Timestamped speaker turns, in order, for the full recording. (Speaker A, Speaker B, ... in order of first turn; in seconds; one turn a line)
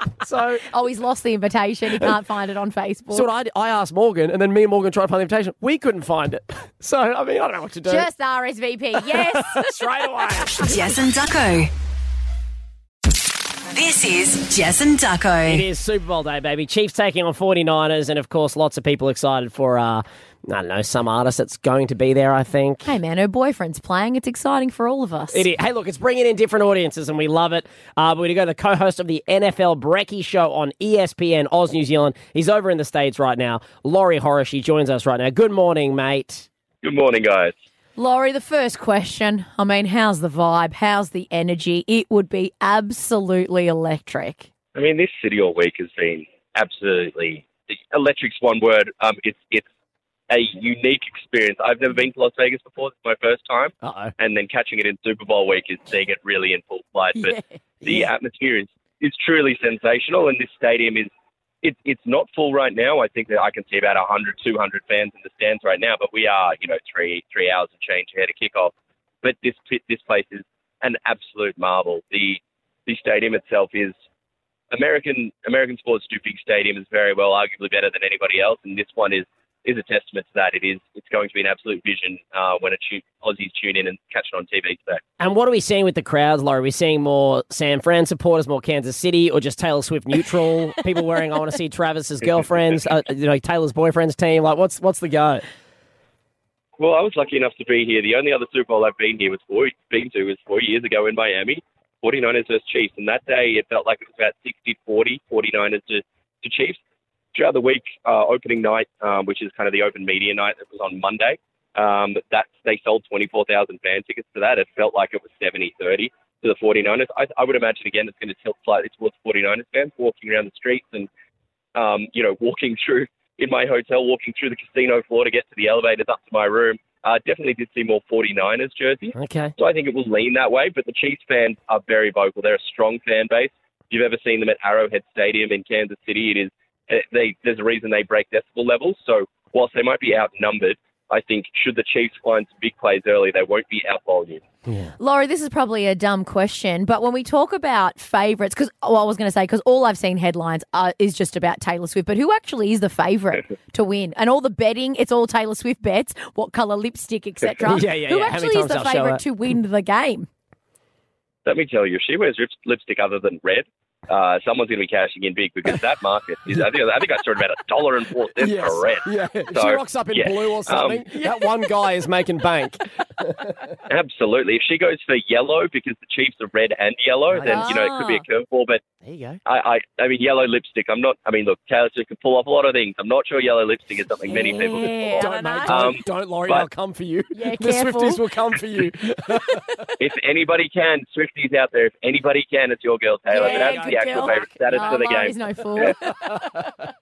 Speaker A: 0.2-0.7
Speaker B: 0.7-3.3
Speaker A: 3.1-8.1
Speaker B: 7.9-9.8
Speaker A: 9.0-10.8
Speaker C: 10.6-11.7
Speaker C: 13.7-15.6
Speaker A: 15.5-23.0
Speaker B: 22.9-25.5
Speaker A: 25.3-36.5
Speaker D: 36.8-37.5
Speaker B: 38.0-44.5
Speaker D: 44.8-49.6
Speaker D: 50.3-61.1
Speaker A: 53.8-54.1
Speaker B: 57.2-57.4
Speaker D: 61.6-74.0
Speaker D: 74.7-85.0
Speaker A: 85.2-95.4
Speaker D: 96.8-106.8
Speaker D: 107.3-121.1
Speaker D: 121.8-144.4
Speaker A: 129.2-129.5
Speaker A: 144.7-144.9
Speaker B: 145.0-160.3
Speaker A: 157.6-159.2
Speaker D: 161.4-171.1
Speaker A: 168.4-173.8
Speaker D: 173.9-178.8
Speaker A: 177.3-177.7
Speaker B: 177.4-178.2
Speaker A: 179.0-179.4
Speaker D: 179.5-186.7
Speaker B: 184.3-185.9
Speaker A: 185.1-189.8
Speaker B: 187.3-188.2
Speaker D: 190.0-196.0
Speaker B: 193.3-196.3
Speaker A: 193.4-194.9